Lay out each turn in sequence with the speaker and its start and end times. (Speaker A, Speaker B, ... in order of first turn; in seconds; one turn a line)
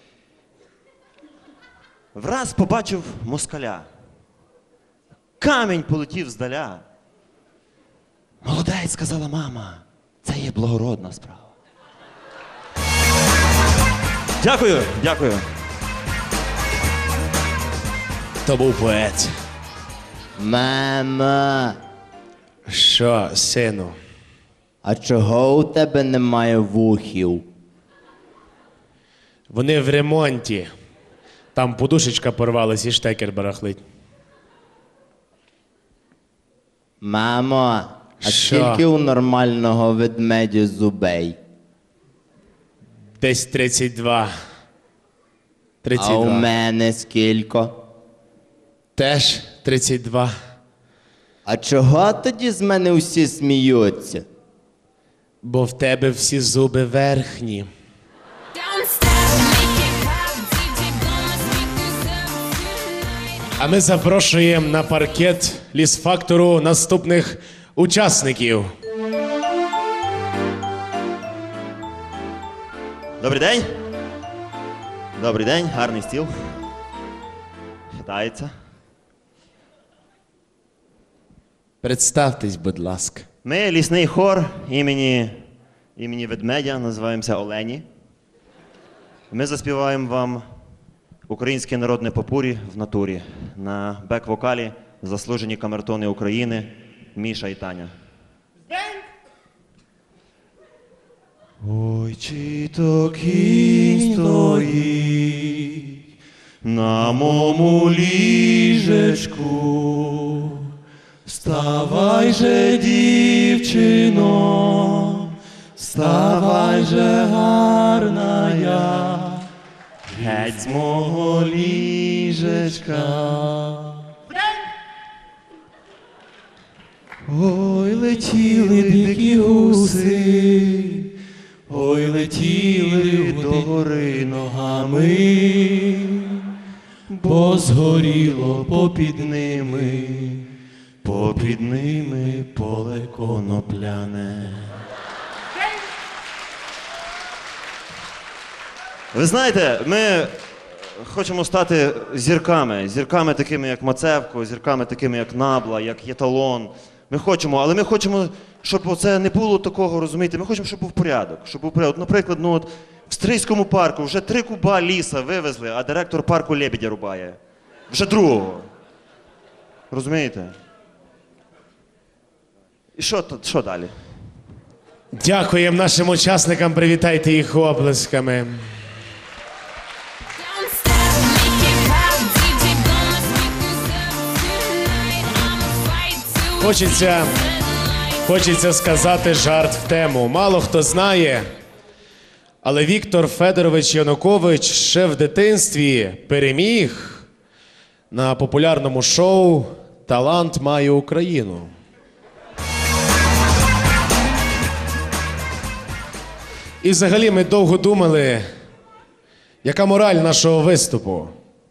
Speaker A: 2.1-3.9
Speaker A: 5.4-6.8
Speaker A: 8.4-11.5
Speaker A: 14.4-15.4
Speaker B: 18.4-19.3
Speaker C: 20.4-21.8
Speaker B: 22.7-23.9
Speaker C: 24.8-27.4
Speaker B: 29.5-30.7
Speaker B: 31.5-33.8
Speaker C: 37.0-41.4
Speaker B: 38.2-38.8
Speaker B: 43.2-44.3
Speaker B: 45.8-46.5
Speaker C: 46.0-47.7
Speaker B: 49.0-50.3
Speaker C: 51.5-54.2
Speaker B: 55.4-57.7
Speaker B: 63.6-68.7
Speaker A: 73.2-73.7
Speaker A: 75.2-76.3
Speaker A: 78.0-78.5
Speaker B: 81.8-83.2
Speaker A: 83.4-85.3
Speaker A: 86.0-87.8
Speaker A: 89.3-90.4
Speaker A: 91.3-97.9
Speaker A: 101.6-106.0
Speaker A: 106.6-110.7
Speaker A: 111.2-119.5
Speaker A: 120.1-124.1
Speaker A: 127.3-131.1
Speaker A: 131.7-136.5
Speaker A: 137.1-140.5
Speaker A: 141.0-144.8
Speaker A: 149.1-150.4
Speaker A: 151.0-168.7
Speaker A: 169.9-170.5
Speaker A: 172.9-173.9
Speaker B: 175.2-178.6
Speaker B: 186.6-187.3
Speaker B: 188.2-191.4
Speaker B: 192.6-197.2
Speaker B: 198.1-201.7
Speaker B: 206.8-208.4
Speaker B: 209.6-211.3